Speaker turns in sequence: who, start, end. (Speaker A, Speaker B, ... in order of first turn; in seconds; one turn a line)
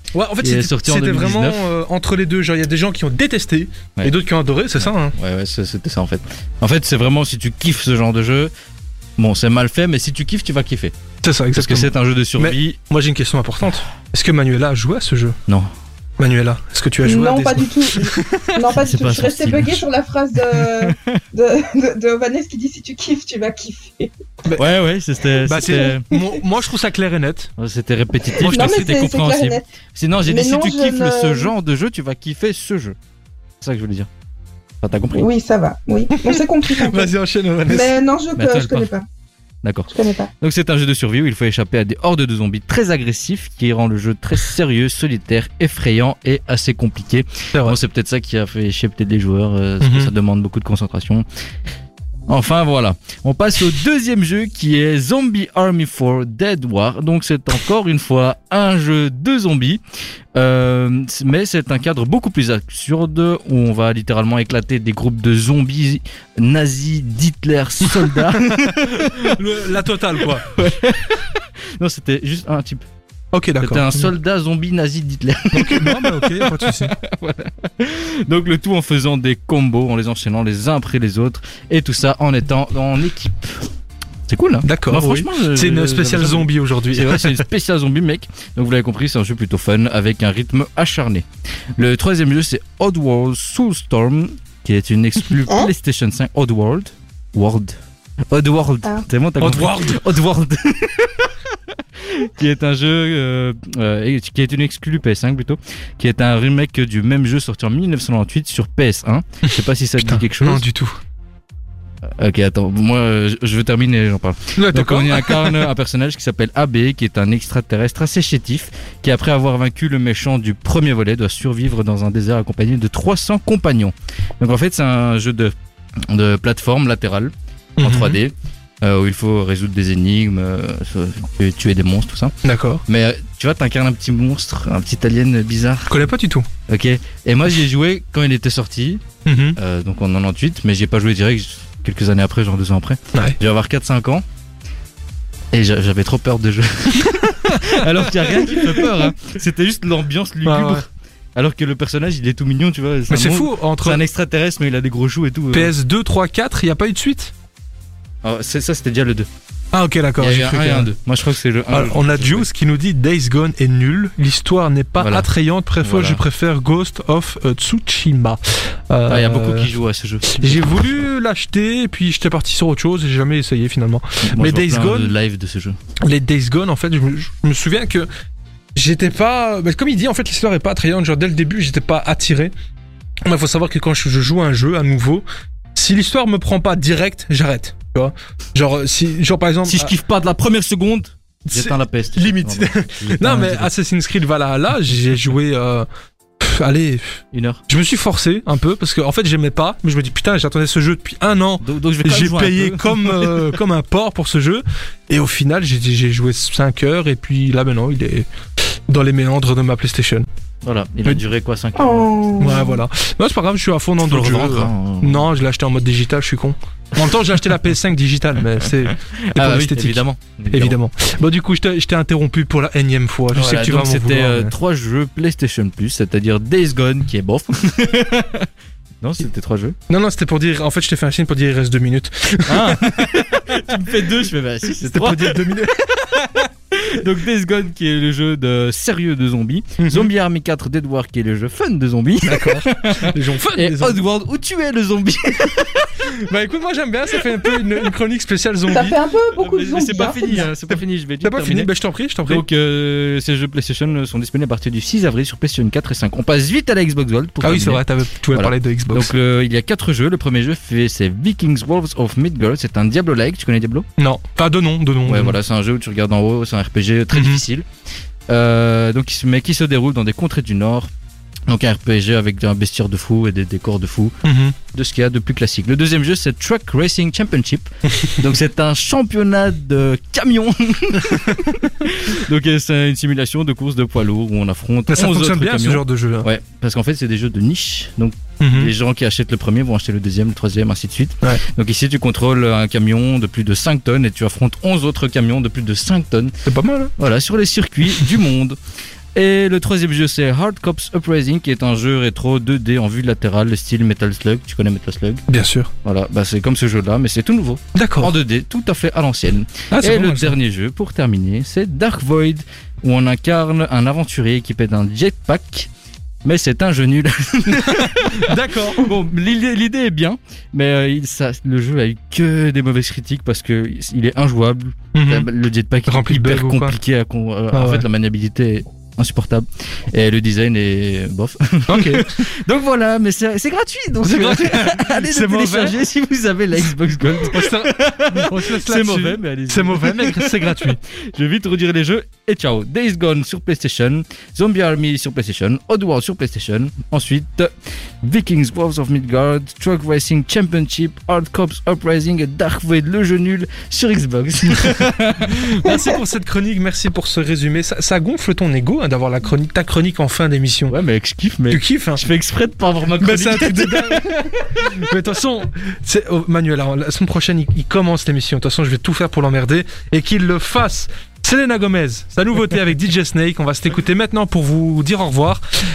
Speaker A: 0.1-5.2
Speaker B: 0.4-1.6
Speaker B: 4.8-8.5
Speaker B: 9.2-10.9
Speaker A: 11.2-15.3
Speaker B: 11.6-12.8
Speaker A: 16.2-18.7
Speaker C: 17.0-24.1
Speaker B: 18.7-19.9
Speaker B: 20.5-21.2
Speaker B: 24.5-26.1
Speaker A: 25.4-27.5
Speaker C: 25.6-26.3
Speaker B: 27.6-33.0
Speaker A: 28.4-29.1
Speaker C: 28.4-29.6
Speaker C: 30.2-31.5
Speaker B: 33.6-34.1
Speaker B: 34.8-35.3
Speaker C: 35.1-37.1
Speaker A: 36.2-38.0
Speaker C: 37.7-39.0
Speaker B: 38.3-38.9
Speaker B: 39.6-51.2
Speaker C: 39.9-40.3
Speaker A: 47.5-47.8
Speaker A: 49.8-50.1
Speaker B: 52.3-59.8
Speaker B: 60.3-69.4
Speaker A: 67.8-70.5
Speaker B: 70.2-72.8
Speaker A: 73.3-74.1
Speaker B: 73.6-83.7
Speaker A: 75.5-76.9
Speaker B: 84.3-91.2
Speaker A: 84.6-87.4
Speaker B: 91.8-97.8
Speaker B: 98.3-110.6
Speaker A: 99.4-100.0
Speaker A: 110.0-111.0
Speaker B: 112.2-125.5
Speaker A: 114.5-115.7
Speaker B: 126.0-132.3
Speaker A: 127.8-128.2
Speaker A: 132.4-132.8
Speaker B: 132.9-136.1
Speaker A: 135.9-136.5
Speaker B: 136.7-139.0
Speaker A: 139.2-139.6
Speaker B: 139.6-144.2
Speaker B: 145.5-155.7
Speaker A: 147.4-149.0
Speaker A: 150.4-150.8
Speaker A: 153.1-154.0
Speaker A: 155.5-157.3
Speaker B: 158.2-159.3
Speaker A: 159.7-160.9
Speaker B: 160.2-162.5
Speaker A: 161.7-169.7
Speaker B: 165.0-165.2
Speaker B: 165.8-166.2
Speaker B: 169.1-171.0
Speaker A: 170.3-175.1
Speaker B: 174.3-175.8
Speaker A: 176.0-178.1
Speaker A: 178.7-182.5
Speaker A: 183.2-189.9
Speaker B: 189.7-193.7
Speaker A: 191.5-195.9
Speaker A: 196.4-208.3
Speaker B: 197.3-197.6
Speaker B: 201.6-203.4
Speaker A: 208.9-210.2
Speaker B: 210.6-212.5
Speaker C: 211.8-212.8
Speaker A: 212.4-224.5
Speaker B: 214.0-215.3
Speaker B: 218.8-220.8
Speaker B: 223.3-228.5
Speaker B: 229.0-229.8
Speaker A: 229.9-233.8
Speaker B: 232.5-246.2
Speaker A: 234.8-235.8
Speaker A: 239.8-240.1
Speaker A: 242.2-244.0
Speaker A: 246.0-248.9
Speaker B: 247.2-247.6
Speaker C: 248.7-250.5
Speaker B: 249.3-251.7
Speaker A: 250.7-252.4
Speaker B: 252.2-263.9
Speaker A: 257.4-259.1
Speaker A: 264.0-265.4
Speaker B: 265.1-267.6
Speaker A: 267.1-267.4
Speaker B: 268.3-270.9
Speaker B: 271.5-274.1
Speaker A: 274.2-274.6
Speaker B: 274.7-296.3
Speaker A: 281.1-281.3
Speaker A: 284.9-286.3
Speaker A: 288.4-288.7
Speaker A: 296.4-296.9
Speaker B: 297.0-298.6
Speaker B: 299.1-305.2
Speaker A: 305.3-305.7
Speaker B: 305.8-315.7
Speaker A: 307.7-308.1
Speaker A: 309.7-310.4
Speaker B: 316.2-355.6
Speaker A: 317.5-318.9
Speaker A: 324.9-325.3
Speaker A: 325.9-326.8
Speaker A: 327.5-327.9
Speaker A: 331.7-332.2
Speaker A: 334.0-335.8
Speaker A: 337.2-340.8
Speaker A: 355.3-360.8
Speaker C: 355.6-355.9
Speaker B: 360.7-364.8
Speaker A: 361.5-362.0
Speaker A: 363.0-375.4